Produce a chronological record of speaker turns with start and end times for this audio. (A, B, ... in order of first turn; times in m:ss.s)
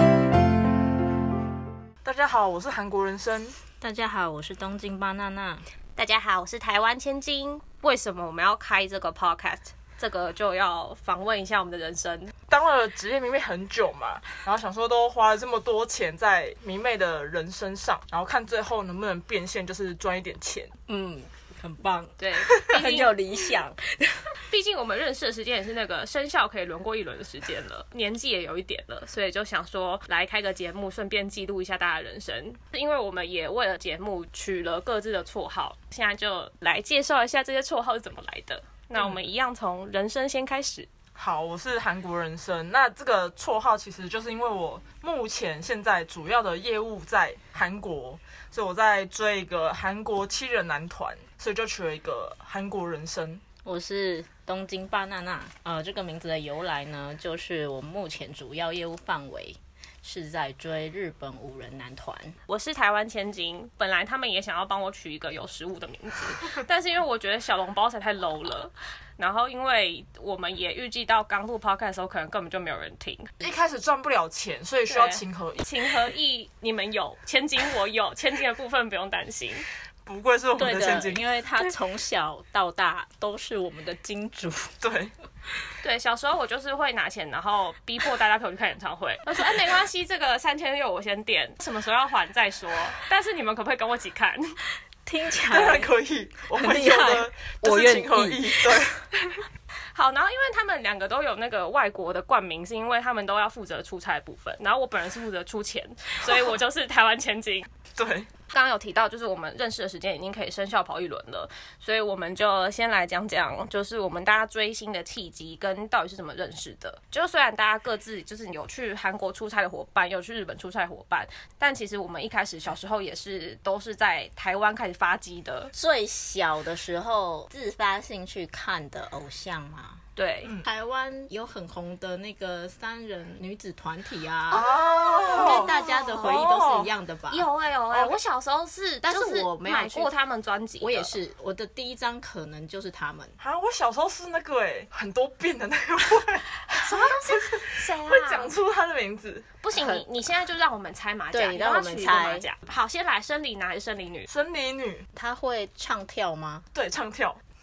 0:02.0-0:03.6 A
0:03.8-0:05.6 B
0:06.0-0:12.3 C
0:12.5-0:20.7 A
0:20.9-0:24.3 B
0:22.2-0:23.2 C
0:24.5-0:40.9 C
0:41.2-0:53.4 A
0:53.6-1:02.4 B
1:02.5-1:13.4 C
1:13.4-1:15.6 A
1:14.9-1:19.7 C
1:20.0-1:21.2 A
1:20.6-1:24.7 B
1:24.8-1:25.1 A
1:25.8-1:34.6 C
1:35.0-1:35.9 B
1:35.5-1:39.0 A
1:36.5-1:38.9 B
1:39.9-1:47.7 C
1:46.2-1:46.5 A
1:48.0-1:48.3 A
1:48.5-2:05.7 C
2:05.7-2:10.0 B
2:10.2-2:10.5 C
2:10.6-2:14.7 B
2:14.5-2:16.7 C
2:14.5-2:16.9 A
2:15.2-2:17.4 B
2:17.3-2:21.1 C
2:19.1-2:20.1 B
2:20.8-2:23.4 B
2:23.4-2:29.5 A
2:26.8-2:28.5 C
2:29.6-2:34.3 C
2:29.7-2:30.0 B
2:31.3-2:32.4 B
2:34.3-2:35.1 A
2:35.1-2:36.6 B
2:36.7-2:37.4 A